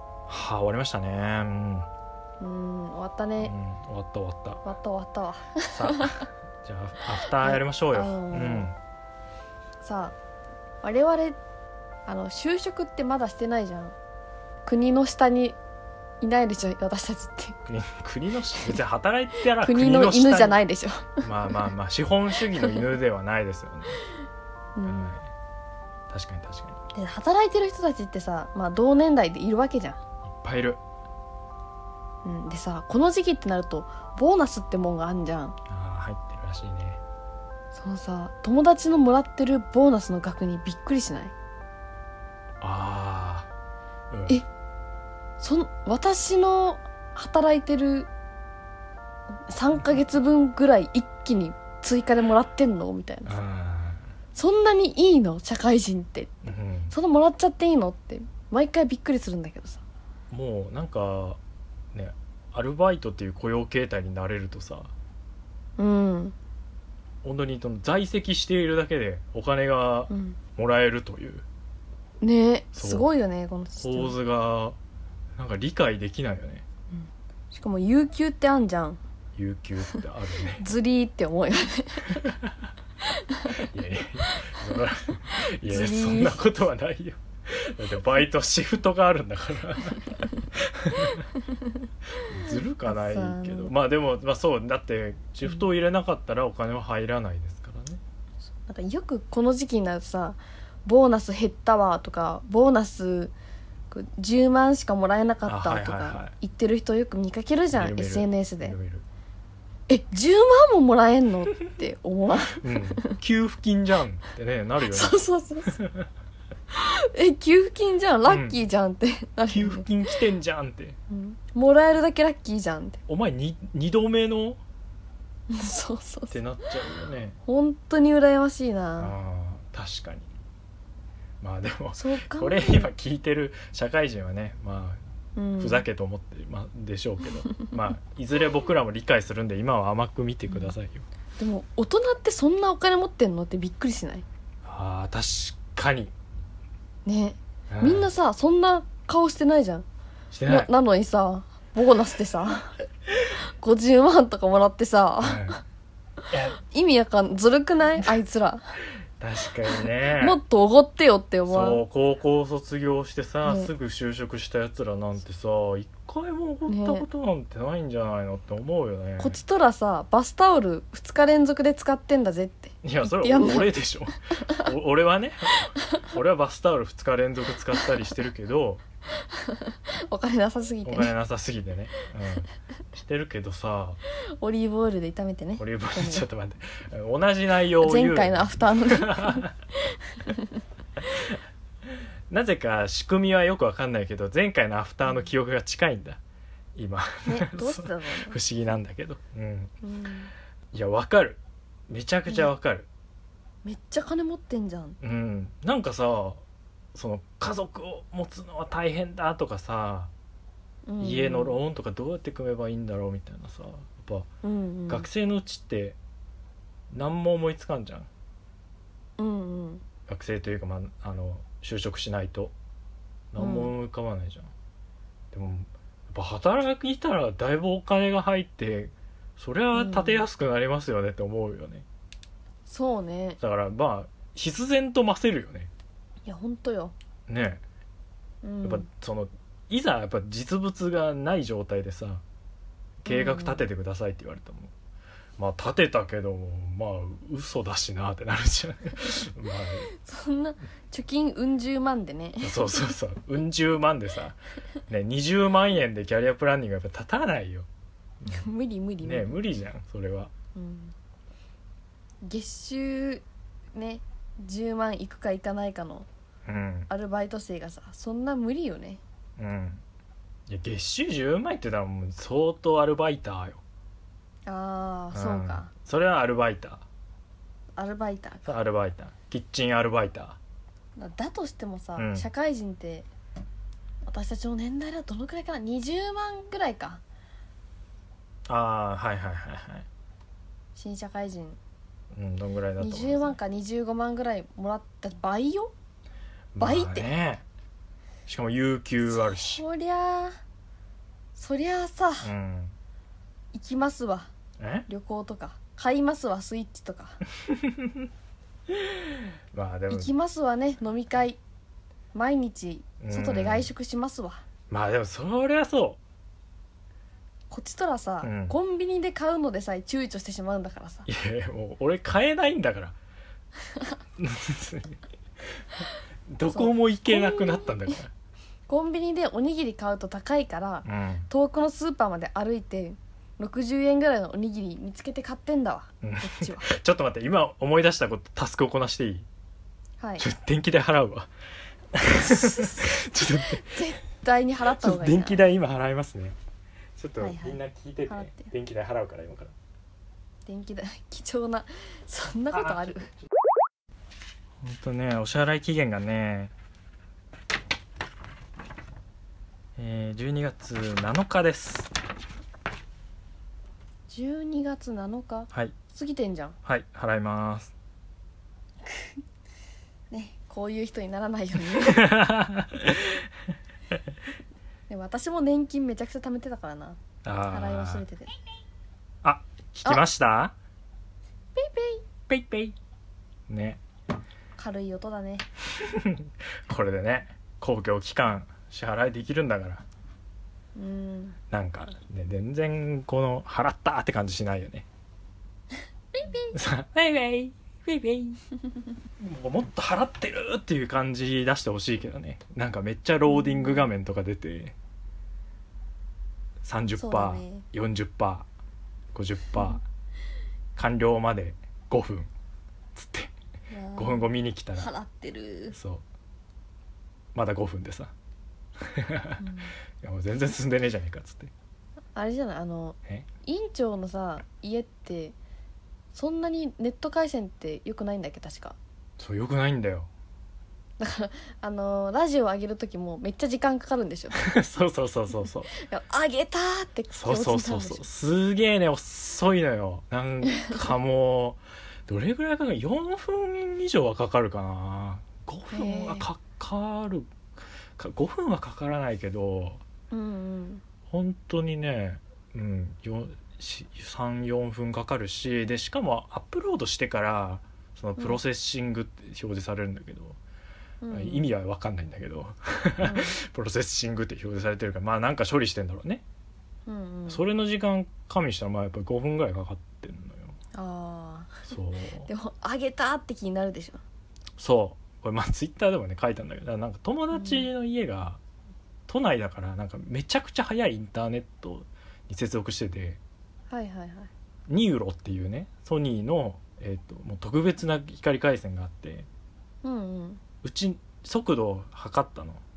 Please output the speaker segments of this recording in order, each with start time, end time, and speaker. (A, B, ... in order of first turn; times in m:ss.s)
0:00.3-0:01.9 A
0:02.4-0:03.5 B
0:03.4-0:04.6 A
0:04.6-0:06.2 B
0:05.7-0:08.8 A
0:07.4-0:08.7 B
0:09.8-0:10.1 B
0:10.8-0:11.4 B
0:12.0-0:13.9 B
0:14.6-0:15.6 B
0:16.2-0:17.6 B
0:17.7-0:20.6 A
0:19.6-0:21.2 B
0:21.2-0:24.0 A
0:22.6-0:22.9 B
0:24.8-0:25.1 B
0:24.8-0:25.3 A
0:26.1-0:26.8 A
0:26.9-0:30.0 B
0:30.3-0:30.8 A
0:32.2-0:35.6 B
0:35.7-0:37.0 A
0:37.7-0:41.3 B
0:42.6-0:43.5 A
0:44.1-0:44.4 A
0:45.4-0:48.1 B
0:49.5-0:53.4 B
0:53.2-0:54.0 A
0:54.3-0:56.3 B
0:56.4-0:56.9 A
0:56.9-0:59.8 B
1:00.3-1:01.4 A
1:01.9-1:04.9 A
1:05.8-1:06.3 B
1:07.2-1:11.4 A
1:10.1-1:10.4 B
1:12.2-1:14.2 B
1:12.7-1:13.1 A
1:13.8-1:14.8 A
1:15.4-1:16.6 A
1:16.9-1:19.0 B
1:19.4-1:20.7 A
1:20.6-1:22.2 B
1:22.1-1:22.5 A
1:23.3-1:23.6 B
1:23.5-1:31.3 A
1:25.6-1:26.4 B
1:32.2-1:38.0 A
1:32.8-1:33.7 B
1:38.6-1:43.3 B
1:43.9-1:48.8 B
1:45.4-1:46.3 A
1:47.7-1:49.0 A
1:49.9-1:53.1 B
1:52.5-1:56.1 A
1:54.8-1:55.7 B
1:56.7-1:59.8 B
1:58.2-1:58.6 A
1:59.5-2:01.0 A
2:01.1-2:03.0 B
2:03.1-2:04.6 A
2:05.5-2:06.4 B
2:06.3-2:07.4 A
2:07.4-2:09.1 B
2:09.0-2:10.3 A
2:11.4-2:15.0 A
2:11.9-2:12.9 B
2:15.4-2:15.8 B
2:15.6-2:21.0 A
2:21.4-2:24.2 B
2:24.6-2:26.1 A
2:27.0-2:29.8 B
2:27.7-2:28.1 A
2:30.3-2:30.7 A
2:30.4-2:32.7 B
2:33.6-2:35.6 B
2:35.2-2:35.6 A
2:36.3-2:36.6 A
2:36.6-2:38.8 B
2:39.2-2:40.4 A
2:40.1-2:41.8 B
2:41.5-2:49.4 A
2:43.4-2:43.7 B
2:46.7-2:47.0 B
2:49.2-2:53.7 B
2:52.8-2:58.8 A
2:59.3-3:01.1 B
3:00.8-3:02.5 A
3:03.0-3:04.0 A
3:04.4-3:06.2 B
3:05.6-3:09.5 A
3:07.8-3:09.4 B
3:10.2-3:10.5 B
3:12.3-3:16.2 A
3:16.8-3:19.7 A
3:17.2-3:18.4 B
3:19.8-3:20.3 B
3:20.7-3:22.9 A
3:23.6-3:25.0 B
3:25.0-3:26.4 A
3:26.9-3:30.1 A
3:30.9-3:31.6 B
3:31.0-3:34.3 A
3:34.4-3:35.1 B
3:34.9-3:36.0 A
3:36.9-3:38.1 A
3:39.2-3:39.8 B
3:40.1-3:42.5 A
3:43.3-3:44.5 A
3:43.4-3:43.7 B
3:45.3-3:51.8 A
3:49.7-3:50.2 B
3:52.7-3:53.4 B
3:53.4-3:55.7 A
3:56.2-3:56.9 B
3:57.3-3:57.6 A
3:58.4-3:58.8 B
3:58.6-4:02.2 A
4:03.0-4:04.7 A
4:03.0-4:03.7 B
4:05.4-4:09.9 A
4:09.9-4:12.8 B
4:12.4-4:17.7 A
4:18.2-4:18.4 A
4:18.3-4:19.4 B
4:19.0-4:20.3 A
4:20.5-4:20.9 B
4:22.2-4:23.2 B
4:23.7-4:26.1 B
4:26.4-4:26.9 A
4:26.9-4:29.0 B
4:29.4-4:29.8 A
4:30.5-4:33.6 A
4:34.4-4:35.7 B
4:35.1-4:36.8 A
4:37.8-4:38.6 B
4:38.4-4:40.4 A
4:41.0-4:43.1 B
4:42.0-4:42.3 A
4:44.0-4:47.0 B
4:48.5-4:49.8 A
4:50.7-4:51.6 B
4:52.1-4:53.4 A
4:52.8-4:55.7 B
4:56.6-4:57.4 A
4:56.6-4:57.1 B
4:58.3-4:59.6 A
4:59.1-5:00.3 B
5:01.3-5:02.3 B
5:02.2-5:02.7 A
5:03.5-5:04.3 B
5:04.6-5:04.9 A
5:04.9-5:07.2 B
5:07.5-5:08.0 A
5:09.5-5:10.1 A
5:09.9-5:11.4 B
5:12.1-5:14.4 B
5:13.0-5:13.7 A
5:14.7-5:16.0 A
5:17.5-5:21.1 B
5:18.2-5:18.6 A
5:21.1-5:23.0 A
5:24.2-5:25.0 A
5:26.3-5:28.1 A
5:26.5-5:28.0 B
5:28.7-5:36.6 B
5:30.8-5:31.3 A
5:36.0-5:39.3 A
5:40.0-5:40.2 B
5:40.2-5:41.3 A
5:41.9-5:43.8 A
5:42.2-5:45.4 B
5:44.8-5:46.4 A
5:47.0-5:49.5 A
5:47.2-5:48.5 B
5:50.4-5:53.1 B
5:54.6-5:56.5 A
5:59.8-6:01.9 A
6:04.1-6:06.6 B
6:06.6-6:07.7 A
6:10.1-6:12.1 B
6:11.8-6:13.2 A
6:14.9-6:18.3 B
6:17.2-6:18.0 A
6:19.2-6:20.5 A
6:21.6-6:22.0 B
6:22.3-6:22.8 A
6:23.5-6:23.8 A
6:24.6-6:25.4 B
6:25.8-6:29.8 A
6:30.8-6:31.4 B
6:31.5-6:34.9 A
6:36.2-6:36.6 B
6:36.5-6:38.4 A
6:39.2-6:44.7 A
6:43.3-6:43.9 B
6:46.6-6:48.5 A
6:47.0-6:47.6 B
6:49.1-6:49.8 A
6:50.8-6:52.3 A
6:52.9-6:53.3 A
6:53.7-6:55.8 B
6:54.0-6:54.9 A
6:55.7-6:56.0 A
6:57.3-6:58.1 A
6:58.8-6:59.4 A
6:59.4-6:59.7 B
7:00.0-7:01.5 A
7:02.1-7:05.4 B
7:06.1-7:08.8 B
7:09.2-7:10.1 A
7:11.0-7:14.4 B
7:14.3-7:15.7 A
7:15.7-7:18.0 B
7:17.1-7:27.3 A
7:25.7-7:26.3 B
7:28.0-7:29.8 A
7:30.1-7:30.8 B
7:31.1-7:40.4 A
7:41.0-7:41.5 B
7:41.1-7:46.2 A
7:43.0-7:43.4 B
7:46.8-7:47.4 B
7:47.3-7:50.5 A
7:50.7-7:51.7 B
7:51.7-7:52.3 A
7:52.3-7:54.0 B
7:54.6-7:58.4 A
7:57.3-7:57.7 B
7:59.1-8:03.2 A
8:03.7-8:04.3 B
8:04.7-8:09.3 A
8:09.8-8:10.4 B
8:10.6-8:12.6 A